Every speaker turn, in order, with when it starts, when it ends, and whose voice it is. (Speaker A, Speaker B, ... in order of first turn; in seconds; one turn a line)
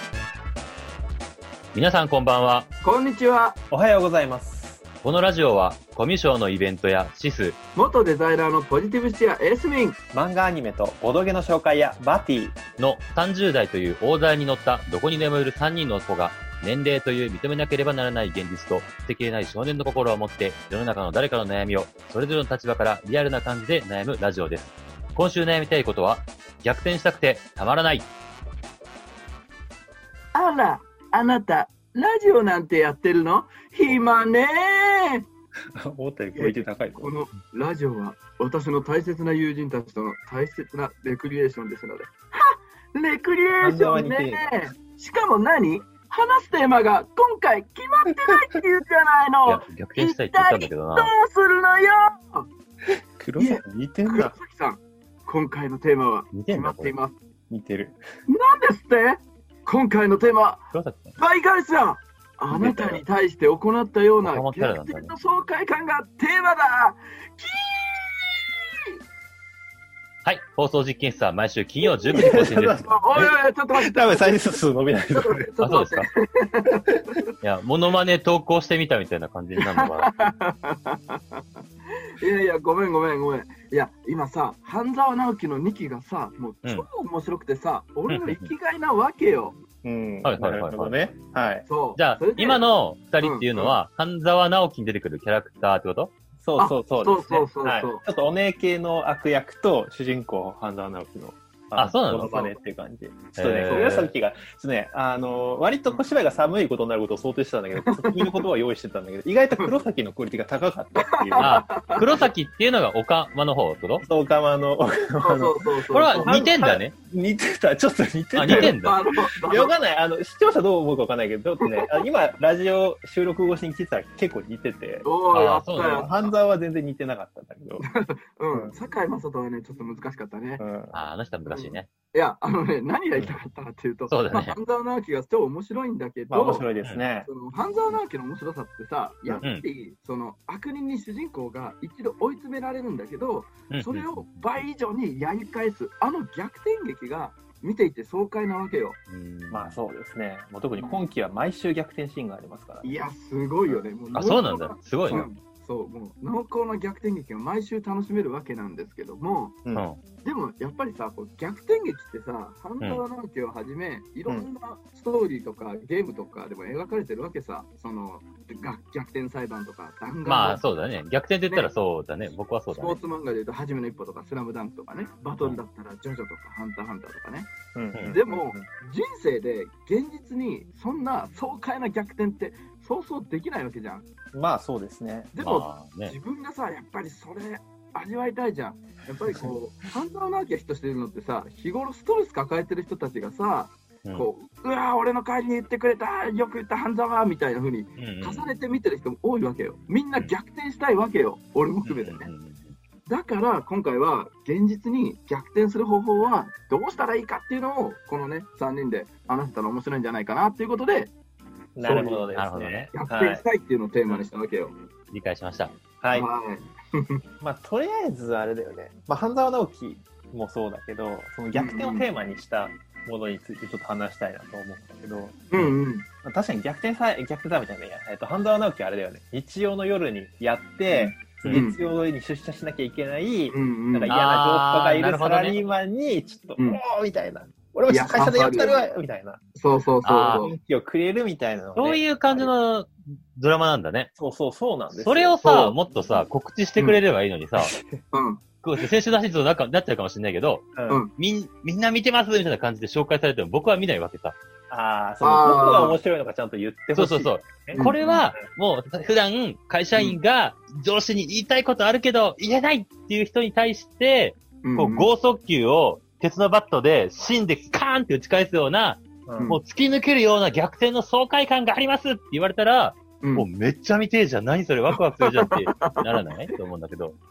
Speaker A: 1.7-2.7
Speaker B: 2.8-3.6
Speaker C: 3.7-4.8
Speaker A: 5.0-7.5
Speaker B: 7.8-10.0
Speaker C: 10.1-12.6
Speaker A: 12.8-28.1
Speaker B: 30.3-35.2
Speaker C: 35.7-37.1
Speaker B: 36.4-52.5
Speaker C: 43.6-44.7
Speaker A: 49.5-51.1
Speaker C: 53.2-54.3
Speaker B: 53.4-57.2
Speaker A: 56.3-56.9
Speaker C: 57.5-58.0
Speaker B: 58.3-60.6
Speaker A: 60.7-61.1
Speaker B: 61.2-68.4
Speaker C: 62.5-63.0
Speaker A: 64.2-65.1
Speaker A: 70.2-72.9
Speaker C: 72.1-75.5
Speaker B: 72.2-74.6
Speaker B: 75.1-76.9
Speaker A: 75.6-76.1
Speaker A: 77.4-80.1
Speaker B: 79.8-81.4
Speaker B: 82.2-89.6
Speaker A: 88.1-88.5
Speaker C: 89.8-91.7
Speaker A: 90.2-91.0
Speaker B: 91.7-92.6
Speaker A: 92.0-96.1
Speaker B: 93.2-93.7
Speaker C: 96.4-111.6
Speaker B: 96.6-98.0
Speaker A: 101.7-102.4
Speaker B: 102.2-102.5
Speaker A: 103.3-104.1
Speaker B: 103.7-104.0
Speaker B: 107.8-108.4
Speaker B: 111.0-112.2
Speaker A: 111.4-114.0
Speaker C: 114.0-118.8
Speaker B: 115.2-116.3
Speaker A: 115.9-116.9
Speaker A: 118.3-119.0
Speaker B: 118.5-119.7
Speaker C: 119.5-125.1
Speaker B: 121.6-121.9
Speaker B: 125.0-126.3
Speaker A: 125.3-126.1
Speaker C: 125.8-127.8
Speaker B: 127.8-130.6
Speaker C: 130.6-130.9
Speaker A: 130.9-131.9
Speaker B: 131.5-136.7
Speaker A: 134.1-134.6
Speaker C: 136.3-137.3
Speaker B: 137.2-149.0
Speaker A: 143.7-144.2
Speaker A: 149.1-149.8
Speaker C: 149.5-152.9
Speaker B: 152.8-159.6
Speaker A: 154.1-155.3
Speaker B: 160.2-170.6
Speaker A: 170.2-173.0
Speaker B: 172.7-177.5
Speaker C: 177.7-178.7
Speaker B: 178.1-184.1
Speaker C: 184.3-185.3
Speaker B: 185.3-202.3
Speaker A: 185.4-186.1
Speaker A: 198.0-198.5
Speaker A: 201.8-202.7
Speaker B: 203.1-211.1
Speaker C: 211.8-213.4
Speaker B: 211.8-212.2
Speaker A: 212.3-212.9
Speaker B: 212.9-214.8
Speaker A: 215.1-215.7
Speaker C: 216.0-216.3
Speaker B: 216.1-217.2
Speaker C: 217.4-225.6
Speaker B: 221.5-222.0
Speaker B: 225.5-226.1
Speaker C: 226.2-239.4
Speaker B: 230.9-231.8
Speaker B: 233.5-234.1
Speaker A: 234.1-235.6
Speaker B: 237.9-238.9
Speaker B: 239.5-240.6
Speaker A: 240.0-240.4
Speaker C: 240.3-242.5
Speaker A: 241.8-244.1
Speaker C: 244.2-245.8
Speaker A: 244.9-247.7
Speaker C: 247.6-248.0
Speaker B: 248.1-248.4
Speaker A: 248.6-254.3
Speaker C: 250.7-251.0
Speaker C: 254.7-258.3
Speaker B: 255.2-256.0
Speaker A: 256.9-277.1
Speaker B: 257.7-258.0
Speaker B: 264.6-265.1
Speaker C: 269.2-269.6
Speaker B: 273.2-273.5
Speaker B: 275.2-276.3